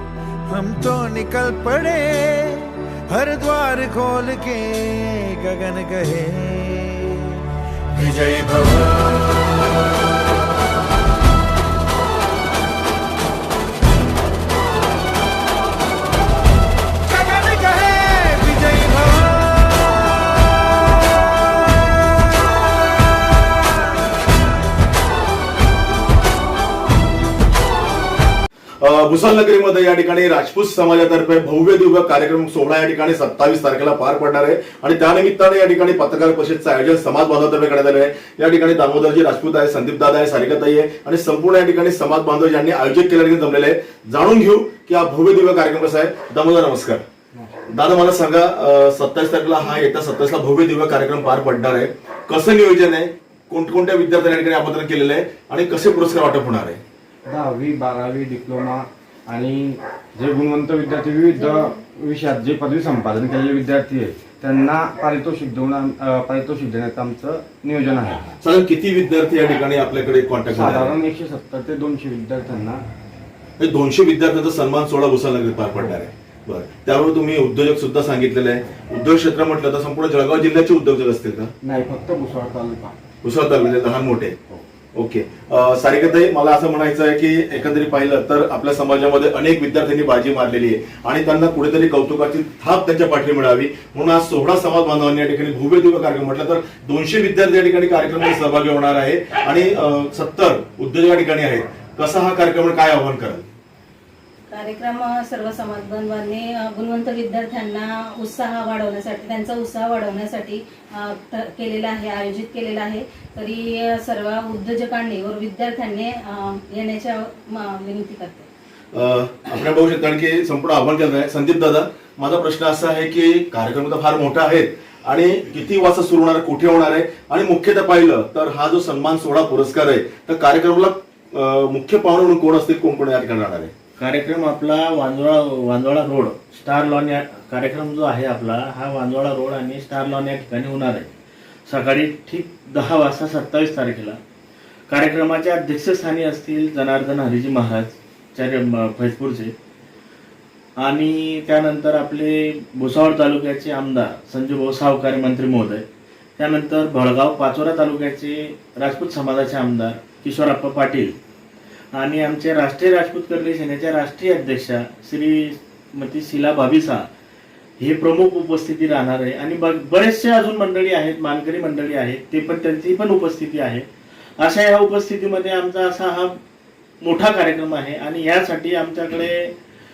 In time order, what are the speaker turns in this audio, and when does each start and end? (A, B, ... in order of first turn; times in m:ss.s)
0:00.5-0:07.2 A
0:07.9-0:08.9 A
0:17.1-0:19.3 A
0:28.8-0:47.0 B
0:47.7-0:56.8 B
0:57.3-1:08.3 C
1:08.4-1:10.9 B
1:10.5-1:12.8 C
1:13.6-1:21.5 B
1:21.6-1:22.9 C
1:23.2-1:24.4 B
1:24.9-1:43.4 B
1:44.5-1:58.5 D
1:58.9-2:13.7 B
2:14.0-2:21.1 E
2:21.7-2:24.2 E
2:24.9-2:29.5 E
2:30.8-2:35.8 E
2:36.4-2:41.2 E
2:41.9-2:47.1 E
2:47.8-2:53.9 E
2:54.4-2:56.4 E
2:57.0-2:59.5 E